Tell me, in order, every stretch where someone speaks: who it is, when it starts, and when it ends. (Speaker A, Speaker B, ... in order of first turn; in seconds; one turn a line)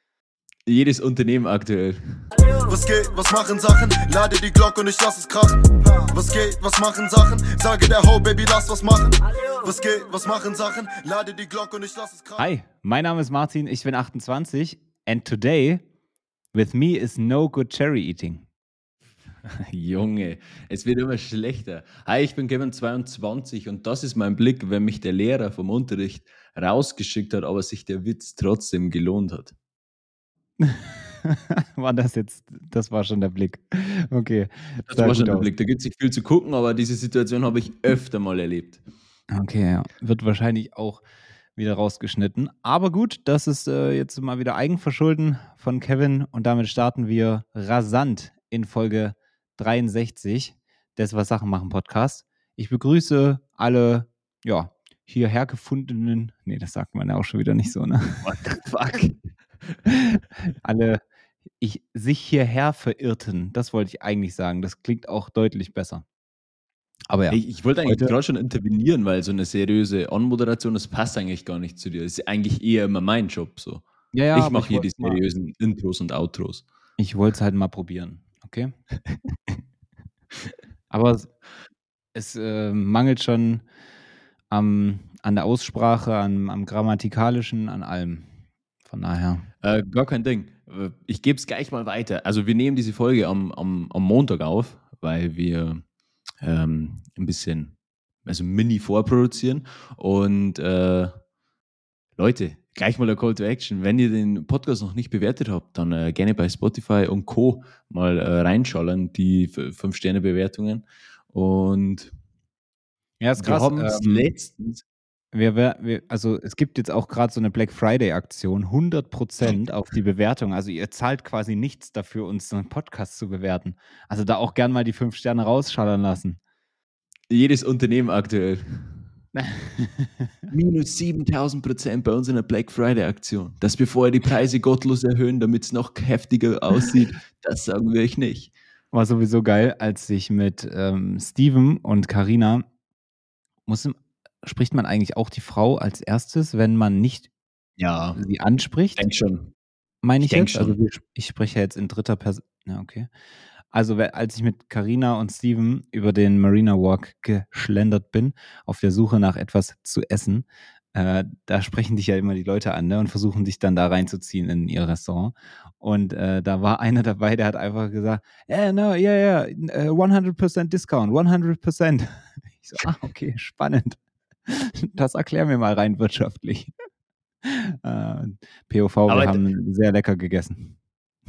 Speaker A: 0.7-2.0
Speaker B: 2.3-12.5
Speaker C: 12.4-15.8
Speaker C: 16.5-18.5
Speaker A: 19.7-29.5
Speaker C: 30.6-35.5
Speaker A: 34.9-38.8
Speaker C: 39.3-41.0
Speaker C: 41.5-58.3
Speaker A: 58.2-59.2
Speaker C: 59.9-61.0
Speaker C: 61.6-66.0
Speaker C: 67.1-68.1
Speaker A: 67.3-76.6
Speaker C: 74.1-75.2
Speaker C: 77.0-78.7
Speaker C: 80.9-81.3
Speaker C: 82.1-83.6
Speaker C: 84.5-88.3
Speaker C: 88.9-89.5
Speaker A: 89.6-95.8
Speaker A: 96.4-101.2
Speaker A: 102.2-112.1
Speaker C: 113.2-114.3
Speaker A: 113.4-114.8
Speaker C: 115.3-126.4
Speaker A: 127.3-129.0
Speaker C: 129.3-130.3
Speaker A: 130.5-138.5
Speaker C: 138.9-142.6
Speaker C: 143.7-147.3
Speaker A: 147.8-148.2
Speaker C: 148.2-149.1
Speaker A: 149.0-149.5
Speaker C: 150.0-153.1
Speaker A: 150.2-150.8
Speaker C: 153.7-176.7
Speaker C: 177.4-180.8
Speaker A: 179.1-179.4